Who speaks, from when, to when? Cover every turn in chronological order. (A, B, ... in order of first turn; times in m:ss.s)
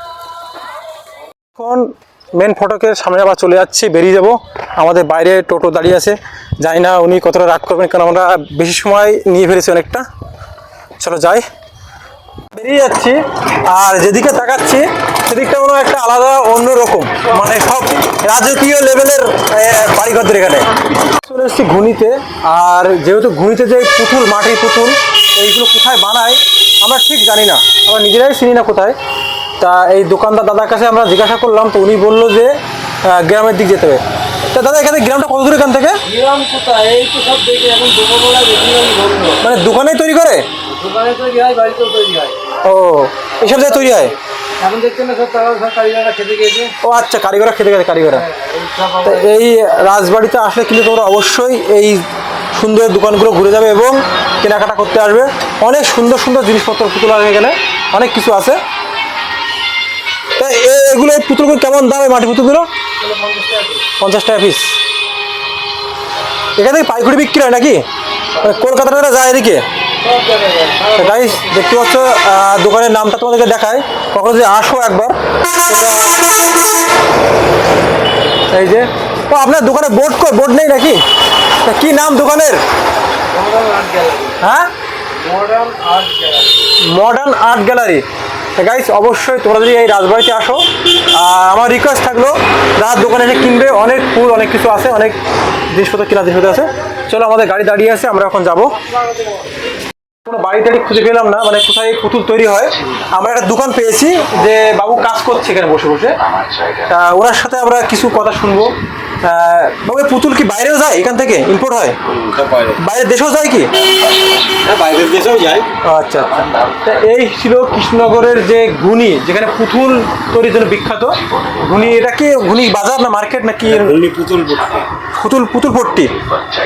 0:01.6-0:10.0 A
0:11.0-0:11.4 A
0:12.5-0:28.9 A
0:29.6-0:36.0 A
0:36.0-0:39.4 B
0:39.4-0:40.4 A
0:40.6-0:42.4 B
0:42.6-0:44.1 A
0:43.4-0:46.8 B
0:46.8-0:48.2 A
0:48.2-0:49.5 B
0:49.0-0:58.6 A
1:00.4-1:02.7 A
1:03.0-1:03.9 B
1:04.0-1:04.8 A
1:06.6-1:07.8 A
1:08.4-1:09.6 A
1:10.0-1:11.5 B
1:10.9-1:16.3 A
1:18.5-1:21.0 A
1:21.6-1:22.6 A
1:23.2-1:24.4 B
1:24.4-1:24.7 A
1:25.1-1:26.5 B
1:26.8-1:28.0 A
1:28.6-1:35.2 A
1:35.7-1:38.8 A
1:40.2-1:46.2 A
1:46.8-1:52.0 A
1:52.7-1:53.8 A
1:54.6-1:55.6 B
1:55.8-2:04.1 A
2:04.1-2:04.8 B
2:05.0-2:06.2 A